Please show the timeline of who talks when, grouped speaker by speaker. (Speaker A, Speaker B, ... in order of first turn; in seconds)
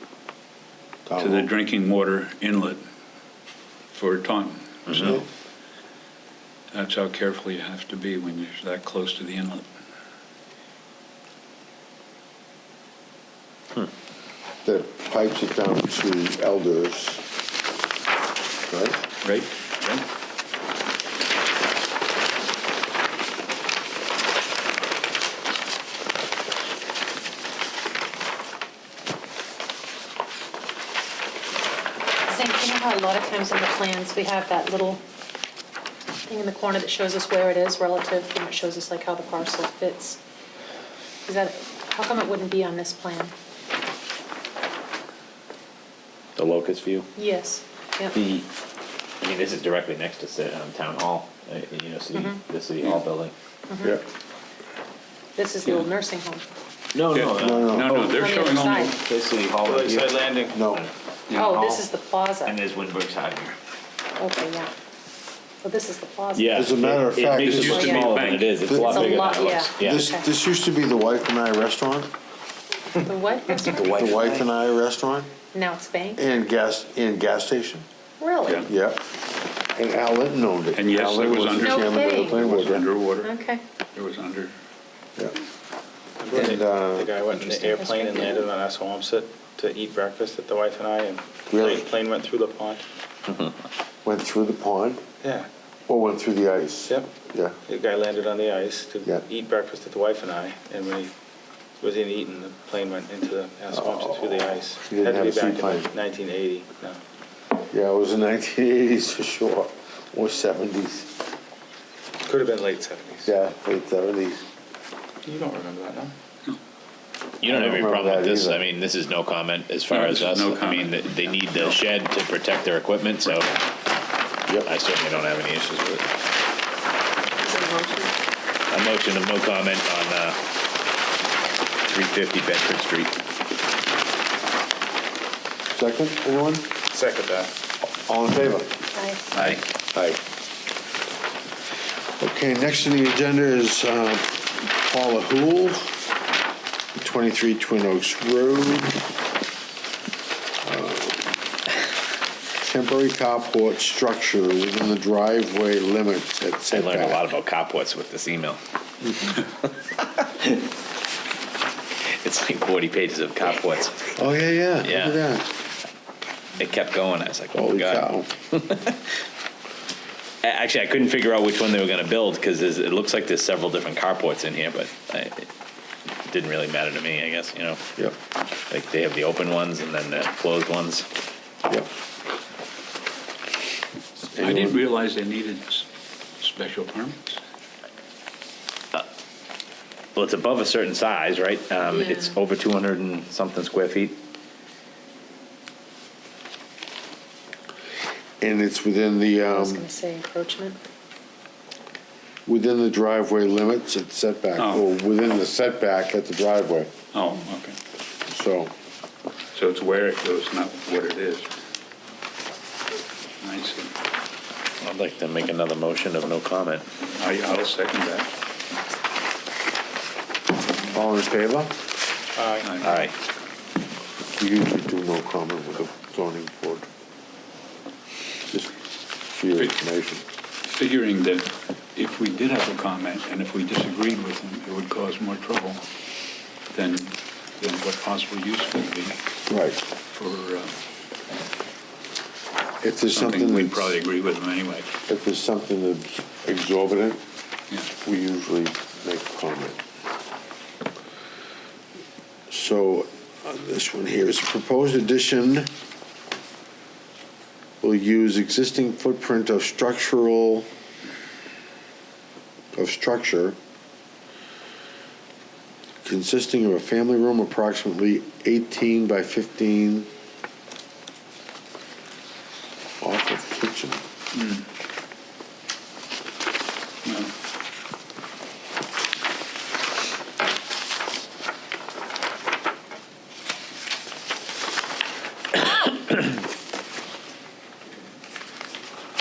Speaker A: 1.1-1.5, 4.9-5.3, 14.6-17.2, 18.7-19.0, 57.4-58.2, 60.5-60.9, 66.5-67.9, 68.7-72.1, 73.8-75.3, 76.2-77.9, 78.7-82.9, 86.3-87.1, 91.5-91.8, 94.0-95.0, 95.9-97.6, 103.7-105.9, 107.7-111.1, 113.3-114.4, 117.4-118.7, 135.7-136.7, 137.9-138.7, 139.9-140.2, 142.2-145.9, 147.0-149.0, 150.6-151.3, 152.6-157.2, 164.2-165.5, 167.5-168.3, 184.2-184.8, 198.4-199.8, 202.5-206.9, 208.3-208.7, 220.9-221.7, 224.4-226.9, 229.3-230.2, 239.5-239.8, 242.8-243.9, 245.1-247.2, 248.0-249.8, 252.5-255.7, 257.8-260.7, 262.7-263.6, 266.0-270.1, 273.0-274.0
Speaker B: 1.2-2.8, 3.9-4.9, 6.7-9.7, 19.2-20.0, 57.1-59.0, 61.3-61.6, 67.4-68.7, 73.8-74.3, 80.7-83.3, 84.0-84.5, 119.9-121.8, 139.3-139.6, 184.4-185.9, 186.4-187.4, 204.6-204.8, 207.1-207.8, 209.5-211.5, 213.4-213.9, 217.1-218.3, 222.6-222.9, 230.8-235.8, 236.7-239.2, 240.1-240.7, 243.2-244.9, 274.3-274.6, 277.0-277.3
Speaker C: 4.9-5.1, 46.4-47.1, 48.1-48.5, 49.2-53.3, 56.9-57.9, 59.0-61.9, 62.4-63.6, 66.3-70.1, 117.4-123.6, 124.6-126.0, 128.7-130.4, 131.9-133.1, 156.7-158.6, 162.0-164.2, 164.8-165.2, 166.6-169.0, 170.4-175.5, 176.3-177.8, 178.7-181.1, 190.2-194.2, 214.8-216.8, 222.8-223.1
Speaker D: 32.3-35.0, 36.3-40.2, 41.3-43.3, 47.2-48.2, 52.1-52.4, 53.7-54.0, 55.4-56.4, 58.1-59.0, 61.3-62.6, 64.2-64.7, 65.6-66.7, 67.5-68.1, 68.7-70.3, 72.9-74.1, 75.5-76.2, 78.2-78.7, 81.6-82.5, 83.2-83.6, 87.3-88.5, 127.5-128.1, 138.9-139.2, 191.9-192.3, 199.4-200.8
Speaker E: 59.7-60.6, 86.2-92.8, 95.2-95.5, 97.7-101.1, 101.8-107.0, 112.2-113.3, 115.2-116.2, 136.9-137.5, 222.4-222.7